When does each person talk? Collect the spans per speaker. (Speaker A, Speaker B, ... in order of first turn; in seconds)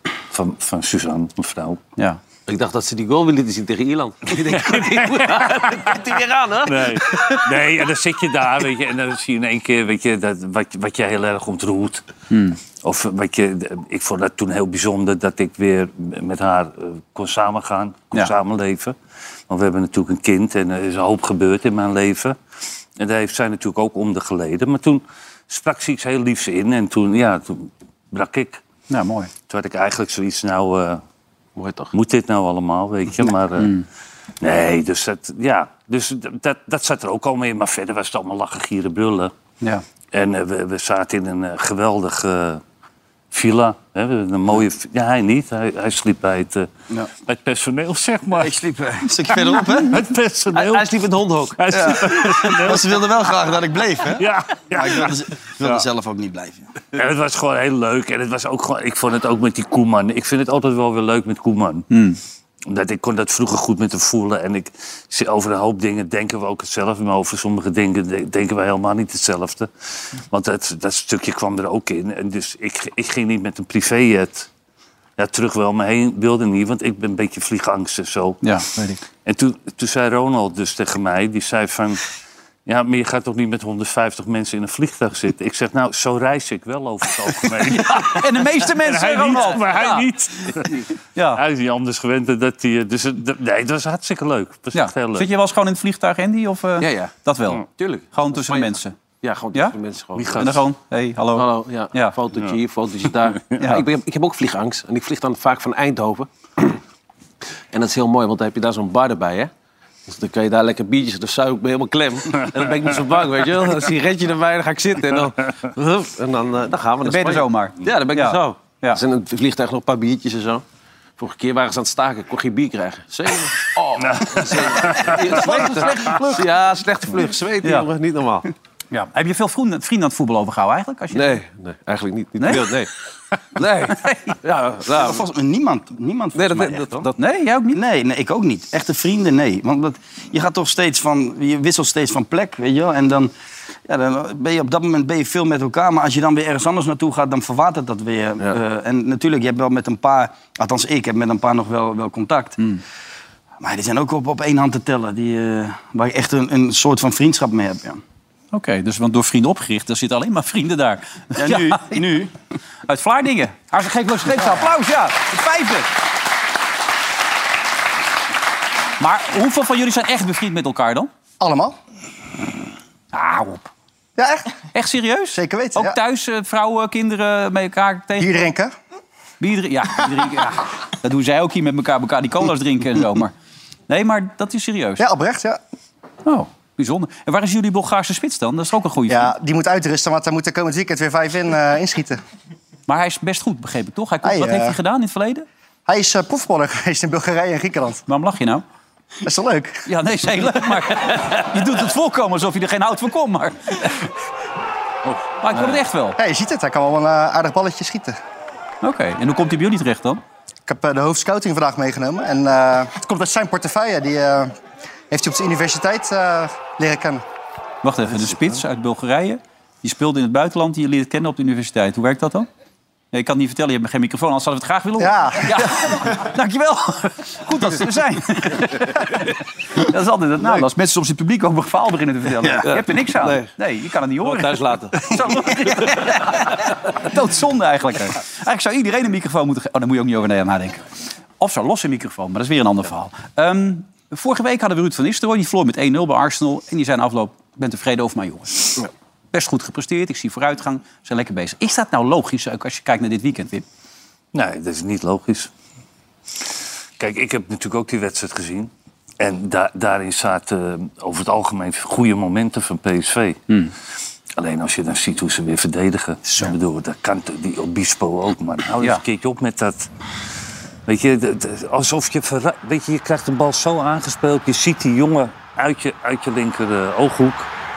Speaker A: 0.3-1.8, 4.5-6.0, 6.6-12.0, 12.8-18.9, 19.5-22.4, 23.0-28.6, 29.5-31.0, 31.9-33.7, 34.4-39.3, 40.1-42.6, 43.3-46.7, 47.2-48.6, 49.4-51.0, 51.5-53.3, 54.1-55.2, 56.9-61.9, 62.7-74.5, 75.2-78.5, 79.2-82.1, 82.7-95.3, 100.1-100.7, 124.0-125.6, 254.3-255.5, 257.0-263.4, 264.4-269.9, 270.9-277.5
Speaker B: 2.5-7.4, 31.6-31.9, 50.5-51.6, 96.8-97.1, 97.8-100.4, 101.3-106.3, 107.7-109.5, 110.1-120.6, 121.2-128.5, 131.1-132.9, 133.6-135.2, 136.3-137.1, 232.6-233.5, 234.2-235.0
Speaker C: 12.3-12.6, 28.9-29.3, 33.6-33.8, 61.9-62.2, 78.4-79.0, 87.7-91.4, 94.7-98.9, 100.3-102.2, 103.6-103.8, 117.0-119.0, 125.0-126.4, 127.6-127.9, 128.9-131.4, 132.4-132.7, 134.0-134.3, 137.1-137.8, 158.5-162.0, 162.9-165.9, 169.0-171.1, 173.1-173.7, 174.7-178.5, 179.4-183.3, 183.9-185.0, 186.2-189.3, 192.9-195.4, 198.1-198.6, 199.8-204.1, 205.4-206.2, 208.8-210.2, 217.8-222.5, 223.1-240.8, 241.4-253.6
Speaker D: 48.4-50.0, 51.7-56.6, 134.9-137.1, 137.7-143.3, 143.9-152.6, 153.6-158.0, 161.4-162.3, 232.4-232.7
Speaker E: 171.4-171.7, 174.2-174.5, 175.3-175.9, 178.2-178.7, 185.0-185.6, 189.1-192.2, 194.2-194.8, 195.9-198.0, 199.2-199.8, 206.2-208.2, 210.7-214.5, 215.1-217.2, 225.0-226.0